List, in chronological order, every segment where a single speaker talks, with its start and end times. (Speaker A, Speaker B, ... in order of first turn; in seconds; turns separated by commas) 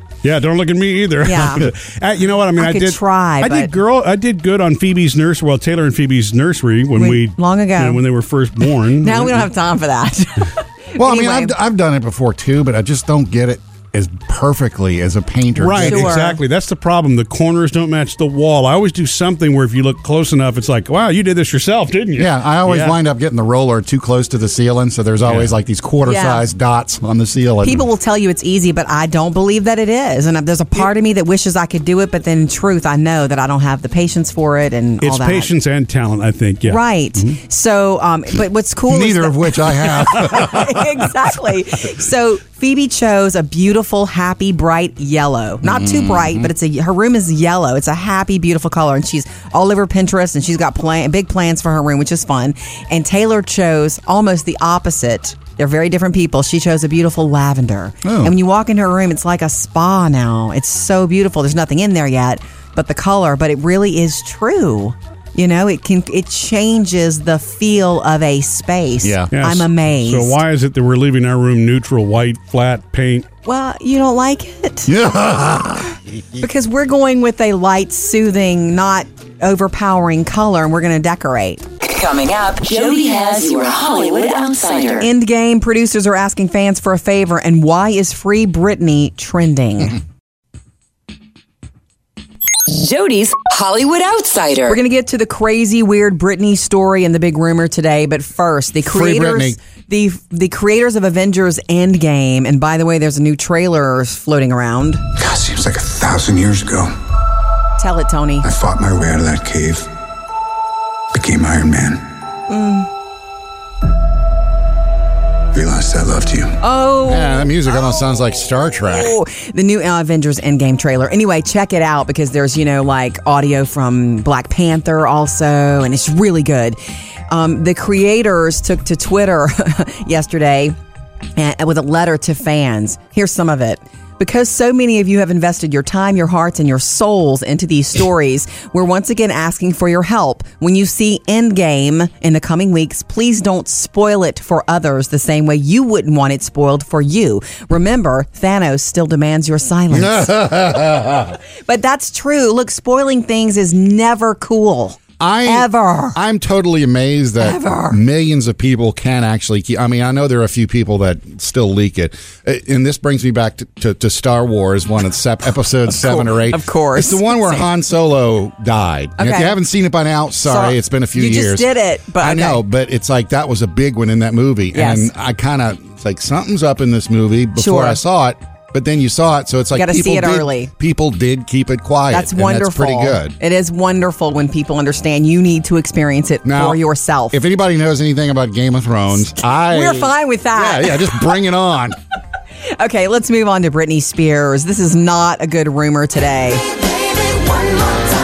Speaker A: 0.2-9.5, Speaker B: 1.2-1.7, Speaker B: 2.5-3.7, Speaker B: 6.9-8.0, Speaker B: 9.0-11.5, Speaker C: 11.0-16.2, Speaker A: 15.6-22.9, Speaker B: 15.8-16.4, Speaker C: 22.1-27.9, Speaker A: 25.2-25.5, Speaker B: 26.0-26.4, Speaker B: 27.6-35.5, Speaker A: 35.0-37.4, Speaker B: 36.6-70.4, Speaker C: 38.9-41.0, Speaker C: 45.6-46.5, Speaker C: 58.0-58.3, Speaker C: 69.0-69.3, Speaker A: 69.3-73.2, Speaker B: 73.4-74.9, Speaker C: 74.8-76.5, Speaker B: 76.4-81.6, Speaker D: 81.8-85.1, Speaker B: 85.0-90.0, Speaker D: 92.7-94.8, Speaker B: 94.7-105.0, Speaker C: 98.8-99.6, Speaker E: 105.1-106.9, Speaker B: 107.8-108.5, Speaker E: 108.4-109.9, Speaker E: 111.1-112.1, Speaker B: 112.5-112.9, Speaker E: 115.5-116.6, Speaker B: 116.6-118.0, Speaker C: 117.0-119.2, Speaker B: 118.7-130.8, Speaker B: 131.3-150.7, Speaker C: 149.9-151.3, Speaker B: 151.7-156.2, Speaker C: 155.2-183.3, Speaker B: 157.4-158.0, Speaker B: 165.9-167.6, Speaker B: 169.2-169.6, Speaker B: 170.4-172.6, Speaker B: 174.7-175.1, Speaker B: 177.6-178.0, Speaker B: 179.7-180.7, Speaker B: 182.1-187.4, Speaker C: 186.4-186.8, Speaker C: 187.3-192.0, Speaker B: 189.4-191.3, Speaker B: 192.8-196.6